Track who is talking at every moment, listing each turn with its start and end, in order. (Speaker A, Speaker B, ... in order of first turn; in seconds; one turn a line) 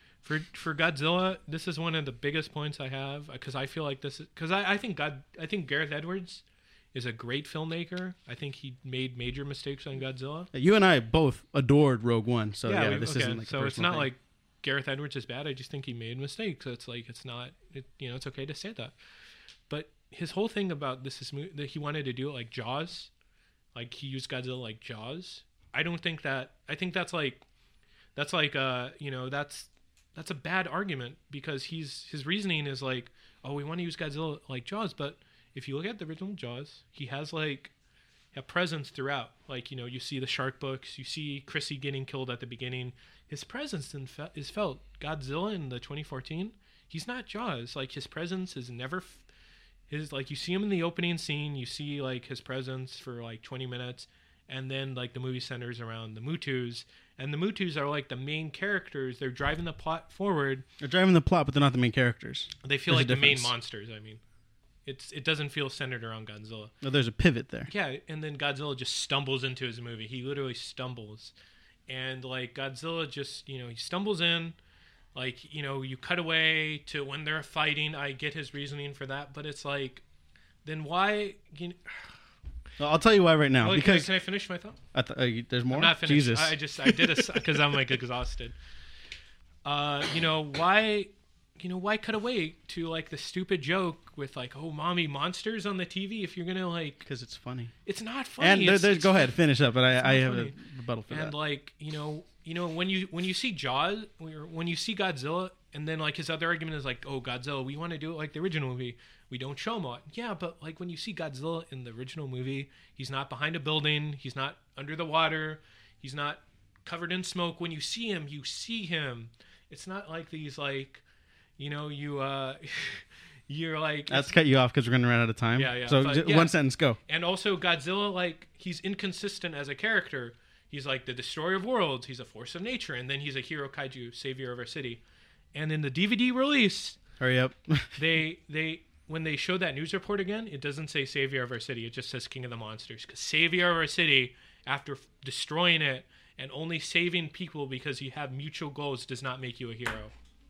Speaker A: 0.2-6.4
Speaker A: 6.9-10.5
Speaker B: 10.5-14.1
Speaker A: 12.7-18.9
Speaker A: 19.7-23.1
Speaker A: 23.8-27.4
Speaker A: 28.1-37.7
Speaker A: 38.3-49.2
Speaker A: 49.9-60.6
Speaker B: 60.8-63.5
Speaker A: 62.6-64.2
Speaker A: 64.9-66.7
Speaker B: 66.8-67.7
Speaker A: 67.7-71.3
Speaker A: 71.9-74.6
Speaker A: 75.2-80.0
Speaker A: 80.7-81.8
Speaker B: 82.8-84.1
Speaker A: 83.6-84.8
Speaker B: 84.9-87.4
Speaker A: 85.7-88.5
Speaker A: 89.7-97.0
Speaker B: 97.1-97.8
Speaker A: 97.9-99.4
Speaker B: 98.4-101.3
Speaker A: 100.0-100.5
Speaker A: 101.1-121.0
Speaker A: 121.6-124.4
Speaker B: 124.1-127.0
Speaker A: 125.6-135.0
Speaker A: 135.5-137.0
Speaker B: 137.2-138.0
Speaker A: 138.0-150.1